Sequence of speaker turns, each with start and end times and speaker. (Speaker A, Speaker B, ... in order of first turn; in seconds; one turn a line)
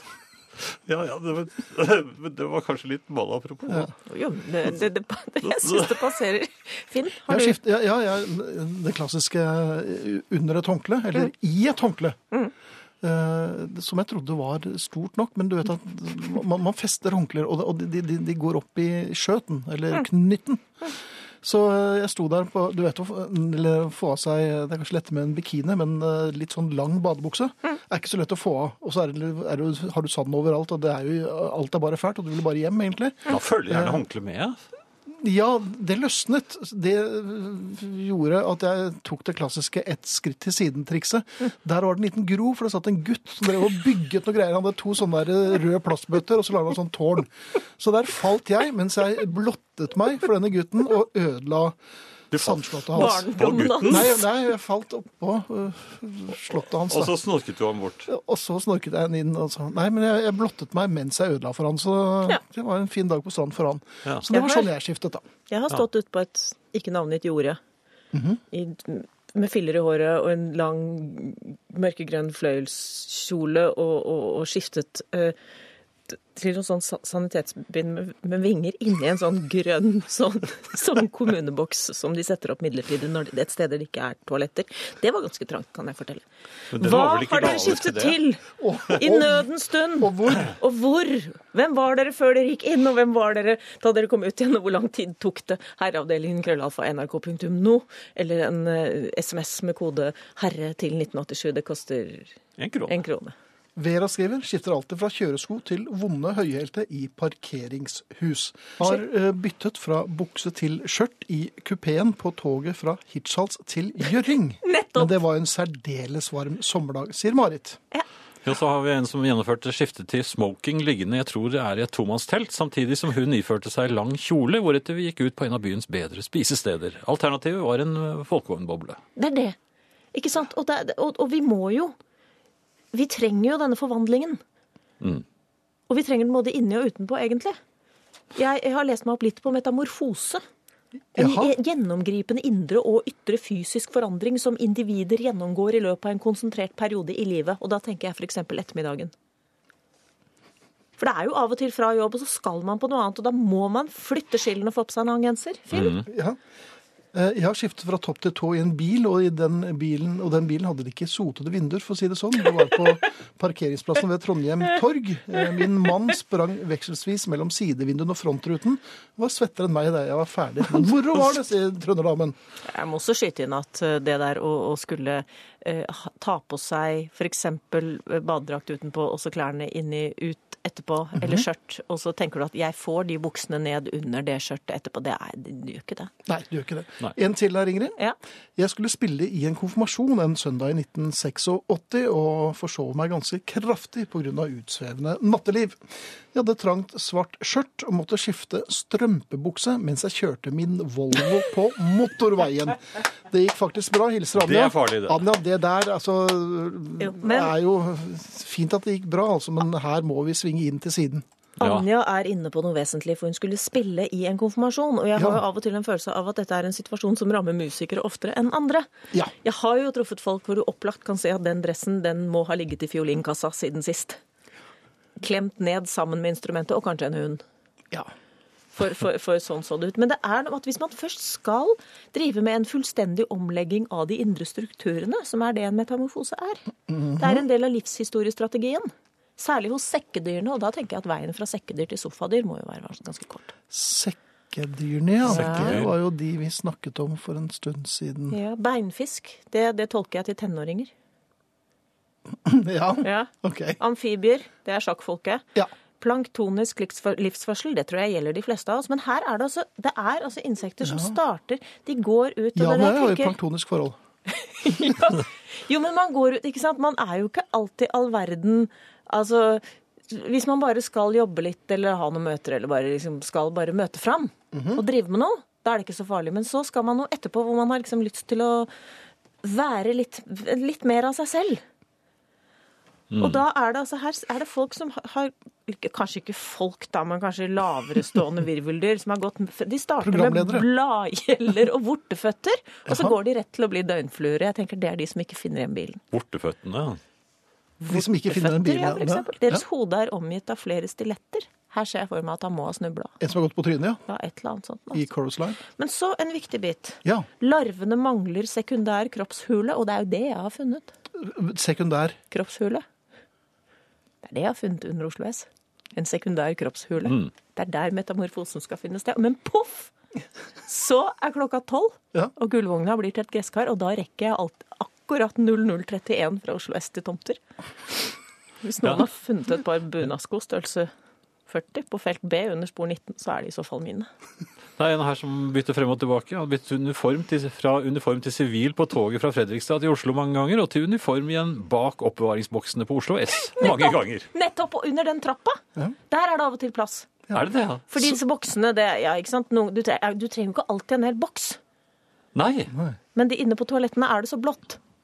Speaker A: 0.6-3.9
Speaker B: 3.7-3.9
Speaker C: 4.0-7.6
Speaker A: 5.4-6.0
Speaker B: 7.3-12.2
Speaker B: 13.0-34.0
Speaker A: 33.3-34.6
Speaker B: 35.1-51.8
Speaker B: 52.3-53.3
Speaker A: 52.3-54.2
Speaker C: 52.9-54.2
Speaker B: 53.9-57.2
Speaker A: 56.9-58.1
Speaker B: 58.1-65.2
Speaker C: 64.3-64.7
Speaker C: 65.5-67.6
Speaker B: 68.1-68.4
Speaker C: 68.5-75.4
Speaker C: 76.1-102.3
Speaker A: 86.7-88.2
Speaker B: 88.6-90.6
Speaker A: 102.6-103.0
Speaker C: 102.9-103.3
Speaker B: 103.8-117.8
Speaker C: 114.6-115.2
Speaker A: 118.4-129.0
Speaker C: 129.2-129.6
Speaker C: 130.1-131.9
Speaker C: 132.9-134.4
Speaker C: 135.9-137.6
Speaker C: 138.3-140.4
Speaker B: 141.2-141.5
Speaker C: 141.2-149.1
Speaker C: 151.0-156.0
Speaker A: 155.7-156.1
Speaker B: 156.0-156.4
Speaker B: 157.1-172.4
Speaker C: 172.7-186.1
Speaker B: 181.2-181.4
Speaker B: 186.3-188.0
Speaker B: 188.6-211.2
Speaker A: 204.3-205.2
Speaker C: 207.0-207.6
Speaker C: 211.6-218.9
Speaker A: 211.6-211.9
Speaker B: 215.2-215.4
Speaker C: 219.4-224.2
Speaker C: 225.2-227.4
Speaker C: 228.8-236.6
Speaker B: 236.9-237.4
Speaker C: 237.2-243.5
Speaker B: 243.7-248.4
Speaker C: 245.3-245.8
Speaker A: 245.3-245.9
Speaker C: 248.3-250.9
Speaker B: 252.4-253.8
Speaker C: 253.0-255.5
Speaker C: 256.0-263.3
Speaker B: 260.8-261.2
Speaker B: 262.6-264.0
Speaker C: 264.3-278.7
Speaker B: 274.5-274.8
Speaker C: 279.4-281.6
Speaker A: 283.1-283.4
Speaker C: 283.2-296.0
Speaker B: 290.0-290.7
Speaker B: 292.9-293.1
Speaker A: 296.1-297.0
Speaker C: 297.8-303.1
Speaker B: 297.9-299.6
Speaker B: 303.2-304.0
Speaker C: 304.1-305.0
Speaker B: 304.9-305.6
Speaker C: 305.8-310.9
Speaker B: 311.2-312.2
Speaker C: 312.3-312.8
Speaker C: 314.2-319.9
Speaker C: 320.7-330.9
Speaker C: 331.5-334.1
Speaker A: 334.8-344.3
Speaker C: 343.6-347.2
Speaker A: 347.3-347.9
Speaker C: 347.9-351.6
Speaker A: 352.3-352.7
Speaker B: 352.7-353.0
Speaker C: 353.1-354.8